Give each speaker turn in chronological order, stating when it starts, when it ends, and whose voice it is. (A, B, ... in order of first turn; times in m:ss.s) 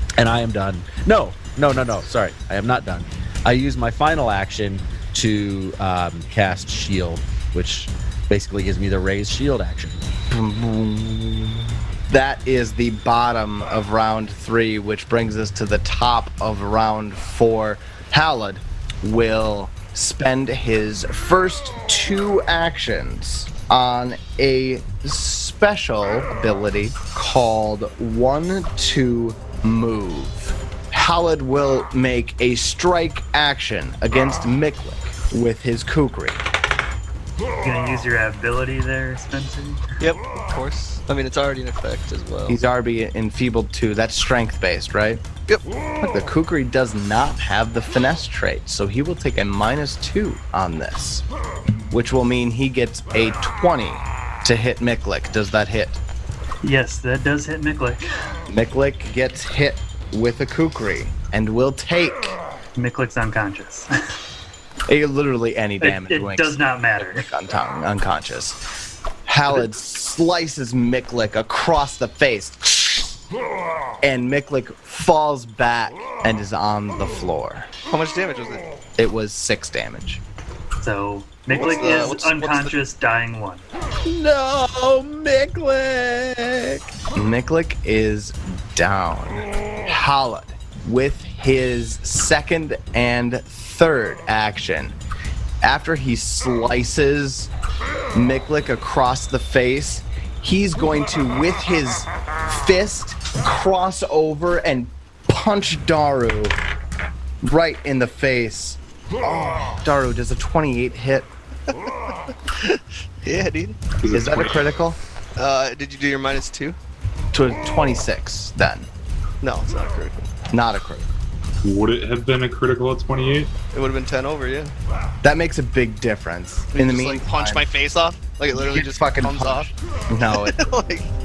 0:00.2-0:10.0 A
0:10.3-0:36.4 B
0:37.6-0:39.8 C
0:40.0-0:42.6 D
0:42.5-0:45.2 B
0:46.0-0:51.2 B
0:51.9-0:56.0 B
0:56.6-0:58.1 C
0:58.5-1:02.3 B
1:02.8-1:03.9 C
1:04.9-1:08.6 B
1:05.8-1:07.3 C
1:09.2-1:13.1 B
1:14.0-1:17.7 B
1:17.9-1:18.6 D
1:19.0-1:20.2 B
1:20.8-1:23.6 C
1:21.5-1:22.7 D
1:24.0-1:26.9 A
1:27.1-1:35.0 B
1:35.6-1:37.5 B
1:38.1-1:46.6 B
1:47.4-1:51.3 B
1:52.5-1:53.8 D
1:54.0-1:54.7 E
1:54.1-1:55.0 B
1:55.4-1:56.8 D
1:57.3-1:58.9 B
1:59.4-2:00.3 D
2:00.5-2:01.1 B
2:01.6-2:03.5 E
2:03.7-2:04.7 D
2:05.2-2:07.6 B
2:06.7-2:09.7 D
2:08.5-2:10.6 B
2:10.3-2:11.1 D